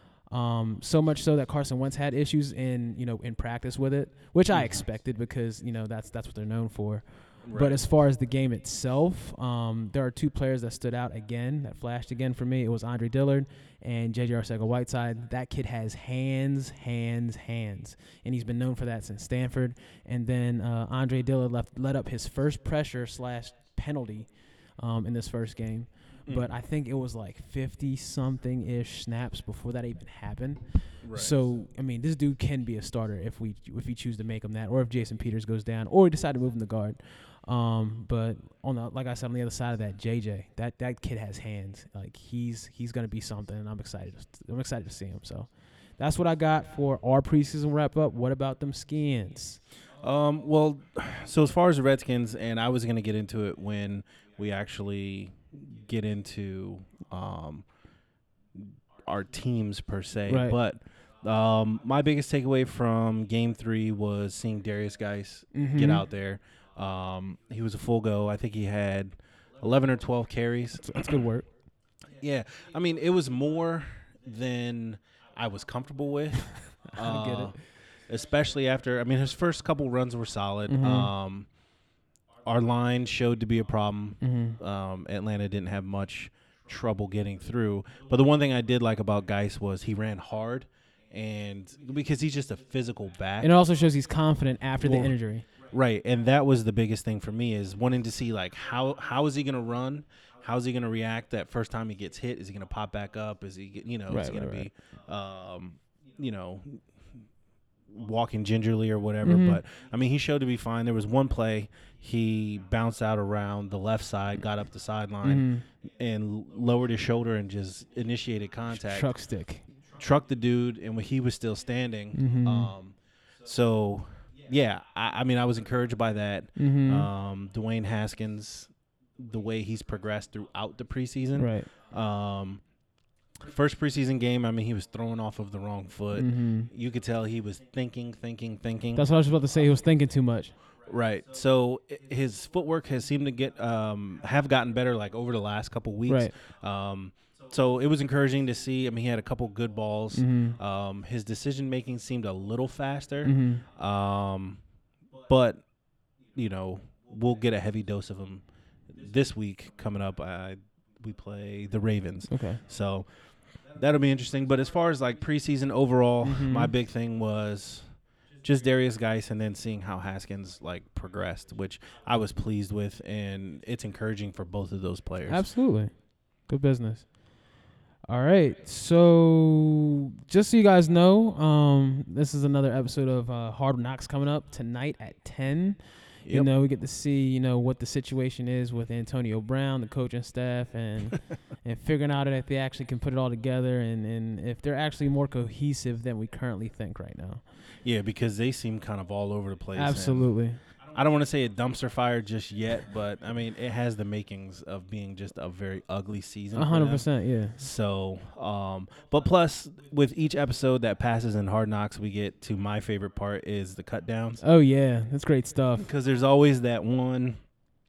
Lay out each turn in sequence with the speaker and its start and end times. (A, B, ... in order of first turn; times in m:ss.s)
0:00.3-0:49.6 A
0:04.5-0:04.8 B
0:07.4-0:07.8 B
0:31.0-0:31.3 B
0:50.0-0:57.6 B
0:58.5-1:11.2 B
1:00.3-1:00.6 A
1:05.5-1:06.0 A
1:10.8-1:11.5 A
1:12.2-1:21.5 B
1:16.9-1:17.6 A
1:20.7-1:21.1 A
1:22.4-1:33.5 B
1:24.2-1:24.6 A
1:33.4-1:35.4 A
1:34.8-1:35.1 B
1:35.7-1:46.8 B
1:44.1-1:44.7 A
1:47.9-1:55.5 B
1:49.2-1:49.6 A
1:55.2-1:55.6 A
1:56.0-1:59.1 B
1:58.7-1:59.6 A
2:00.0-2:12.6 B
2:02.1-2:02.7 A
2:06.6-2:07.1 A
2:11.4-2:11.7 A
2:13.4-2:19.1 B
2:16.1-2:16.7 A
2:18.9-2:20.5 A
2:20.8-2:34.6 B
2:26.1-2:26.3 A
2:30.1-2:30.6 A
2:33.2-2:33.6 A
2:35.3-2:35.6 B
2:36.3-2:38.4 B
2:39.0-2:43.1 B
2:42.3-2:42.6 A
2:43.7-2:47.9 B
2:46.2-2:46.7 A
2:48.4-2:55.4 B
2:55.3-2:55.9 A
2:56.5-2:57.0 A
2:58.1-3:05.8 A
3:06.3-3:17.4 A
3:17.8-3:20.4 B
3:19.7-3:20.6 A
3:20.9-3:34.4 B
3:26.5-3:27.6 A
3:34.4-3:35.9 A
3:35.8-3:37.4 B